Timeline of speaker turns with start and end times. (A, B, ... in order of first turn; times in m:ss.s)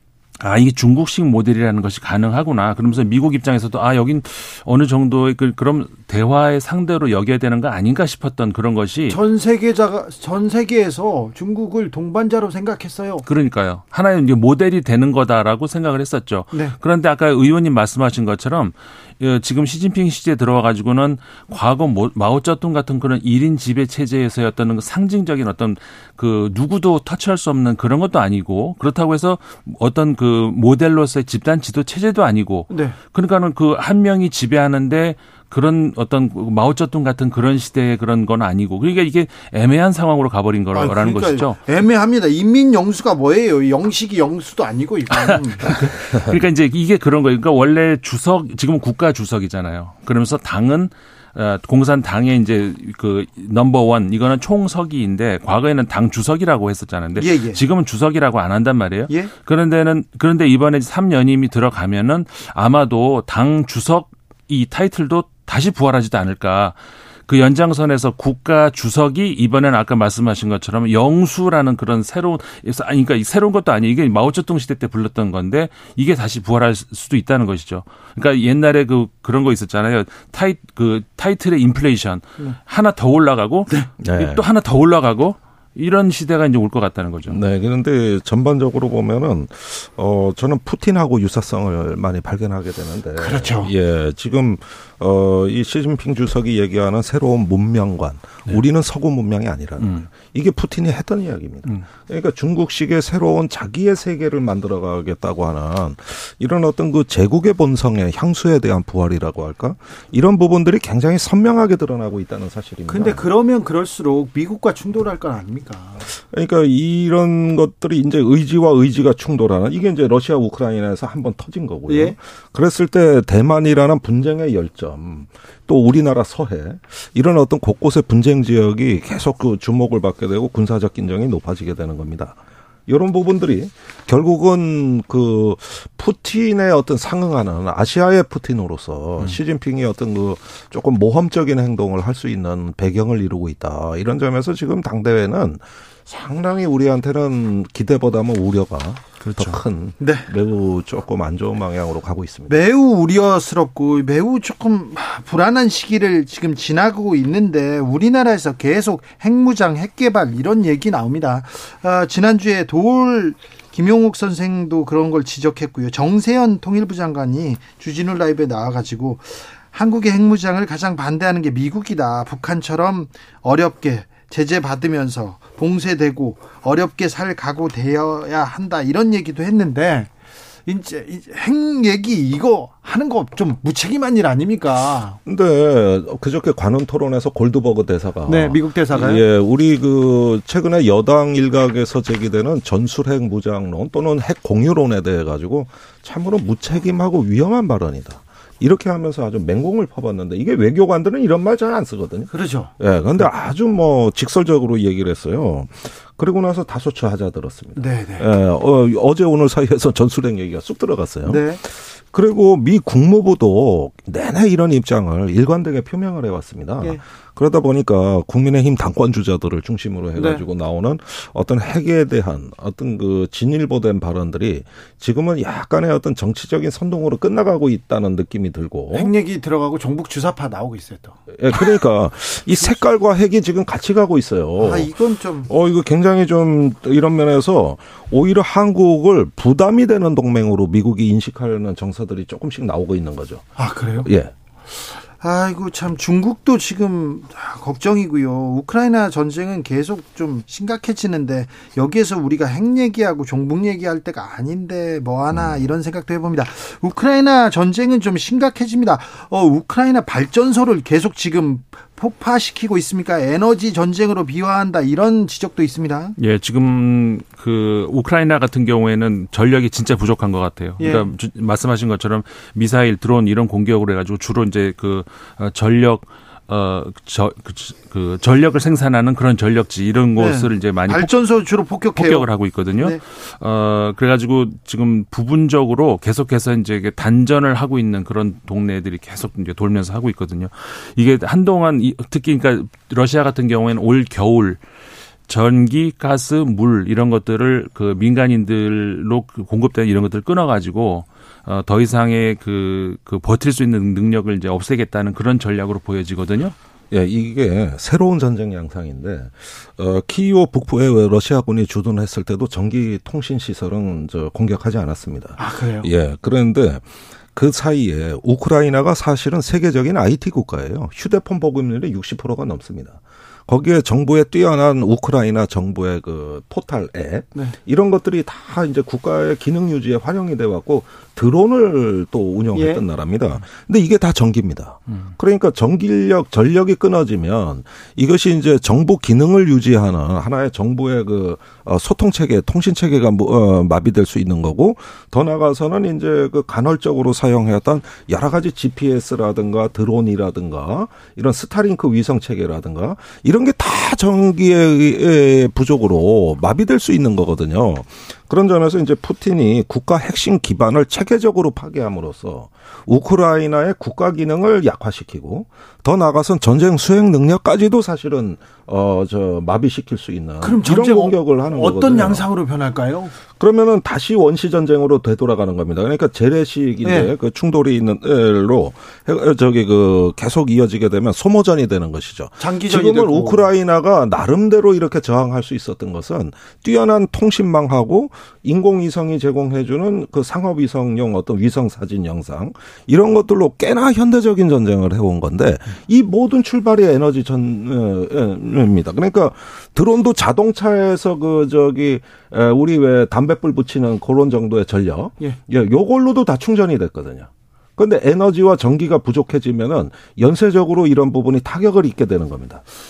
0:00.4-0:09.2 A
0:09.1-0:13.2 B
0:13.3-0:41.6 A
0:32.7-0:33.0 B
0:40.7-0:45.9 B
0:45.2-1:06.8 A
0:57.2-0:57.6 B
1:07.3-1:27.4 A
1:24.0-1:24.4 C
1:27.3-1:53.2 C
1:33.2-1:33.7 B
1:39.8-1:40.1 A
1:52.9-1:56.0 B
1:56.0-2:32.6 C
2:01.9-2:02.2 B
2:30.0-2:30.3 B
2:32.5-3:00.1 B
3:00.7-3:05.2 B
3:05.3-3:49.1 C
3:08.3-3:09.2 B
3:22.3-3:22.7 B
3:27.8-3:28.3 B
3:31.3-3:31.6 B
3:40.2-3:40.4 B
3:48.9-3:51.8 B
3:51.3-3:54.9 C
3:54.6-3:55.5 B
3:55.5-4:03.4 C
4:03.6-4:04.1 B
4:04.0-4:04.3 C
4:05.0-4:26.2 B
4:26.2-4:41.1 A
4:30.8-4:31.1 B
4:40.2-4:43.0 B
4:41.9-4:54.6 A
4:55.3-5:06.6 A
5:06.9-6:12.2 C
5:15.4-5:15.9 B
5:32.5-5:32.8 B
6:10.4-6:13.1 B
6:13.4-6:52.6 C
6:16.8-6:17.1 B
6:22.4-6:23.5 B